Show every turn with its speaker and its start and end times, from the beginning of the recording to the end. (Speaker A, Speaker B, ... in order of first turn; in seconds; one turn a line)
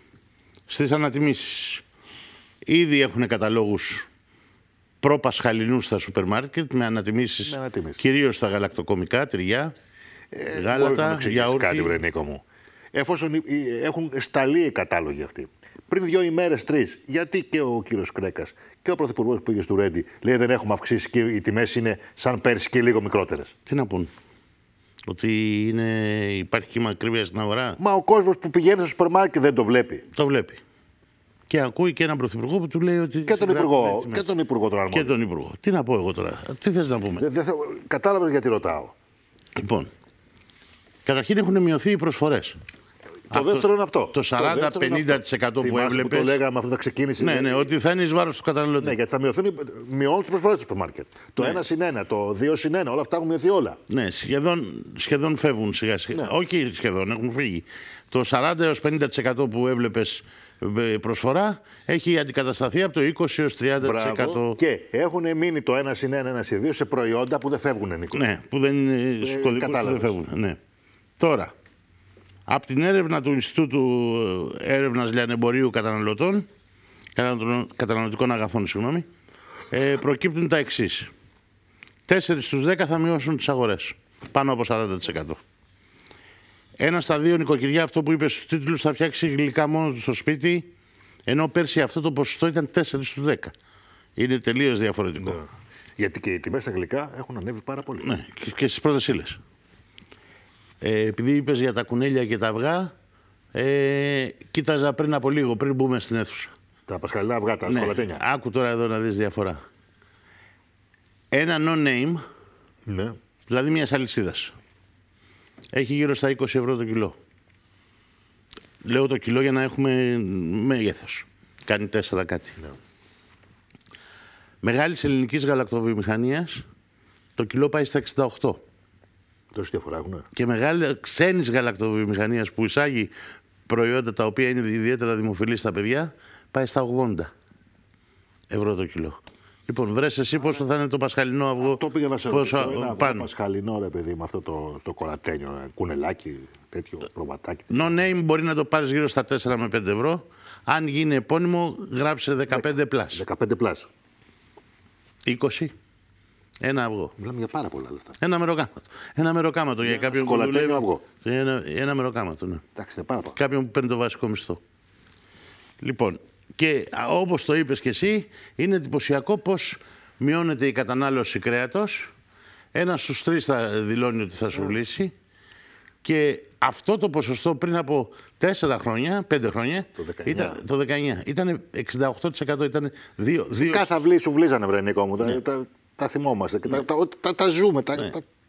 Speaker A: 0.7-1.8
Speaker A: 2.7-4.0
Speaker A: 5.0-9.7
Speaker B: 7.5-8.0
Speaker B: 10.3-12.4
Speaker A: 10.5-12.0
Speaker B: 12.9-23.5
Speaker A: 23.7-24.1
Speaker A: 25.1-27.8
Speaker B: 27.8-30.1
Speaker A: 30.1-30.6
Speaker A: 31.5-34.2
Speaker B: 33.3-35.2
Speaker A: 34.9-37.2
Speaker B: 37.2-38.9
Speaker A: 39.6-39.9
Speaker A: 41.1-42.6
Speaker A: 43.3-46.4
Speaker B: 43.3-47.7
Speaker A: 47.2-49.0
Speaker B: 48.8-53.8
Speaker A: 53.9-64.6
Speaker B: 63.8-68.2
Speaker A: 68.1-70.6
Speaker B: 69.2-70.2
Speaker A: 71.2-71.5
Speaker A: 72.5-76.5
Speaker A: 77.2-79.1
Speaker A: 79.7-81.1
Speaker A: 82.1-85.4
Speaker A: 86.8-90.7
Speaker A: 91.3-93.5
Speaker A: 94.2-95.4
Speaker B: 95.2-95.5
Speaker B: 96.0-98.1
Speaker A: 98.0-99.4
Speaker A: 100.8-102.9
Speaker A: 103.5-106.5
Speaker B: 106.9-108.2
Speaker A: 107.7-109.6
Speaker A: 111.3-112.2
Speaker B: 112.9-113.2
Speaker A: 113.5-114.5
Speaker A: 115.7-117.2
Speaker A: 118.8-122.6
Speaker A: 124.6-126.6
Speaker A: 127.4-128.6
Speaker B: 129.5-130.3
Speaker A: 130.3-133.1
Speaker A: 133.7-137.3
Speaker A: 138.5-143.3
Speaker B: 141.6-147.9
Speaker A: 147.7-153.2
Speaker B: 152.5-153.9
Speaker A: 155.3-155.7
Speaker A: 156.6-157.1
Speaker B: 157.2-158.2
Speaker A: 158.2-162.6
Speaker B: 159.8-161.0
Speaker B: 162.8-163.4
Speaker A: 163.3-164.6
Speaker A: 165.8-172.1
Speaker A: 172.7-175.1
Speaker A: 176.0-183.9
Speaker B: 180.0-180.6
Speaker B: 183.7-188.2